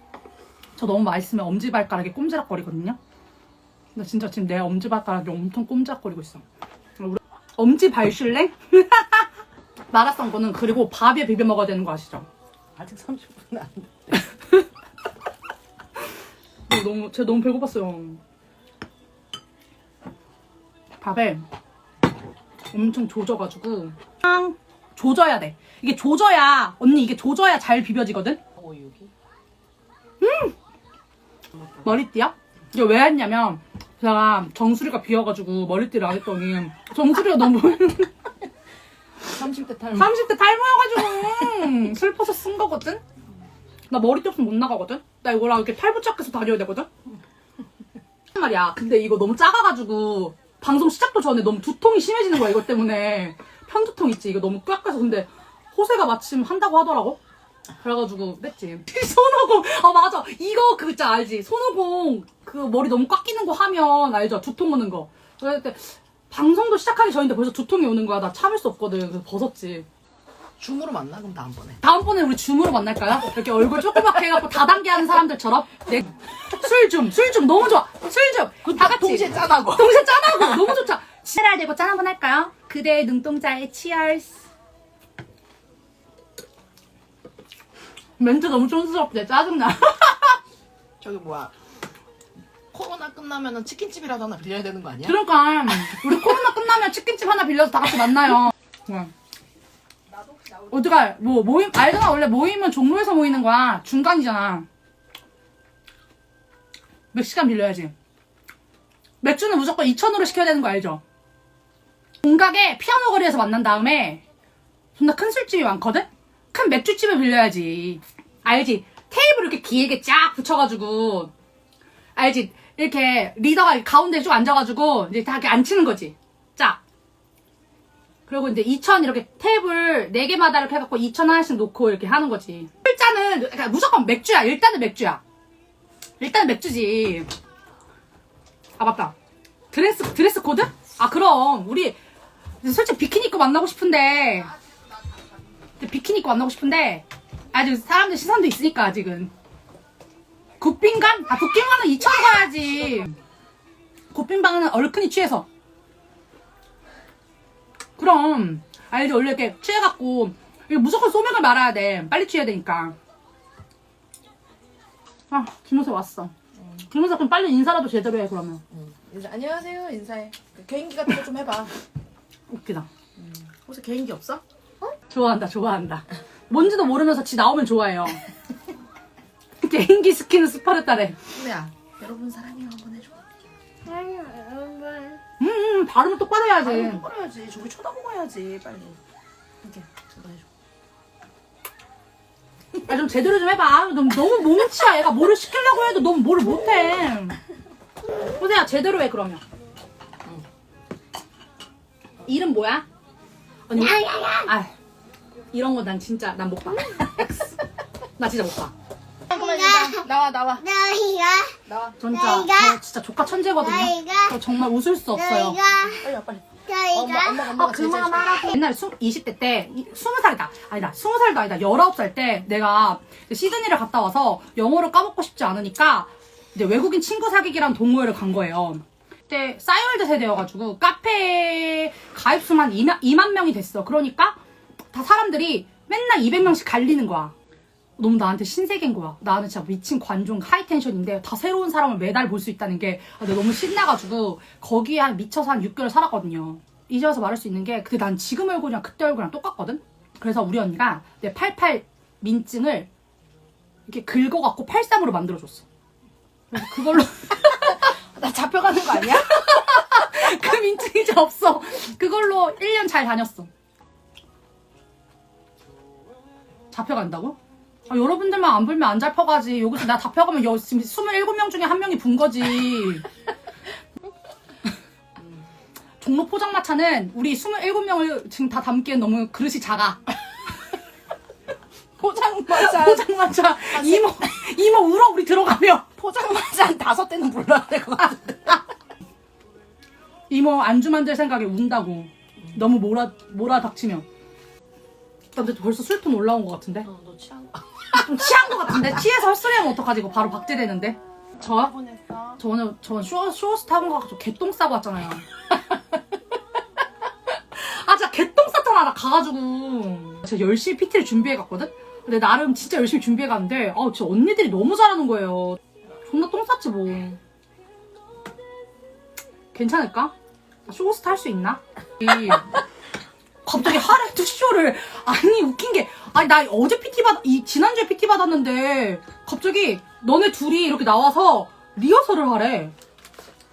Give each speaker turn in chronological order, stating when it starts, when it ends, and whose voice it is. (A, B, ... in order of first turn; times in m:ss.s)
0:00.8-0:03.0 A
0:03.9-0:06.4 A
0:07.0-0:09.3 A
0:09.9-0:12.3 A
0:12.8-0:14.3 B
0:16.7-0:18.2 A
0:21.0-0:21.5 A
0:22.7-0:28.4 A
0:28.6-0:29.1 B
0:30.2-0:30.5 A
0:31.8-0:38.1 A
0:39.2-0:40.1 B
0:39.9-0:43.0 A
0:43.9-0:46.9 A
0:48.3-0:57.2 A
0:57.8-1:09.9 A
1:10.6-1:11.8 B
1:11.8-1:24.4 A
1:18.6-1:20.7 B
1:28.2-1:30.4 A
1:31.0-1:31.5 B
1:32.7-1:35.2 B
1:35.0-1:39.1 A
1:40.7-1:44.7 A
1:47.1-1:47.9 A
1:49.2-1:51.0 A
1:52.2-1:54.2 A
1:55.0-2:01.3 A
2:02.2-2:06.8 A
2:08.3-2:15.2 A
2:16.2-2:17.3 A
2:18.8-2:19.2 A
2:19.7-2:22.0 A
2:22.6-2:24.5 A
2:25.8-2:29.3 A
2:30.6-2:33.2 A
2:34.1-2:35.5 A
2:38.0-2:43.0 A
2:45.3-2:46.3 A
2:46.9-2:48.6 A
2:48.7-2:51.7 B
2:52.5-2:52.9 A
2:53.2-2:54.4 B
2:55.1-2:58.2 A
2:59.6-3:01.2 A
3:01.3-3:03.2 B
3:03.8-3:05.2 C
3:05.4-3:07.0 A
3:06.6-3:09.0 B
3:09.6-3:10.5 B
3:12.8-3:17.4 A
3:18.2-3:19.4 A
3:22.3-3:22.8 A
3:23.7-3:24.7 A
3:23.7-3:24.5 C
3:25.5-3:27.3 A
3:28.2-3:28.7 A
3:29.3-3:30.6 B
3:29.3-3:31.6 C
3:31.7-3:32.0 B
3:32.0-3:35.6 A
3:32.1-3:32.8 C
3:33.5-3:34.4 C
3:35.1-3:36.1 C
3:35.8-3:38.5 B
3:36.7-3:38.4 C
3:37.6-3:54.4 A
3:54.9-3:57.3 A
3:58.0-4:12.9 A
4:13.8-4:15.6 A
4:16.5-4:23.5 A
4:17.6-4:19.6 B
4:26.7-4:33.1 A
4:36.0-4:40.0 A
4:42.0-4:43.1 B
4:42.5-4:45.9 A
4:43.7-4:44.3 B
4:46.0-4:48.6 B
4:50.3-4:54.0 A
4:55.4-4:56.9 A
4:56.8-4:58.0 B
4:57.9-5:01.8 A
5:01.5-5:02.4 B
5:02.4-5:05.6 A
5:07.5-5:17.2 A
5:19.5-5:20.1 A
5:20.7-5:22.6 A
5:23.4-5:32.7 A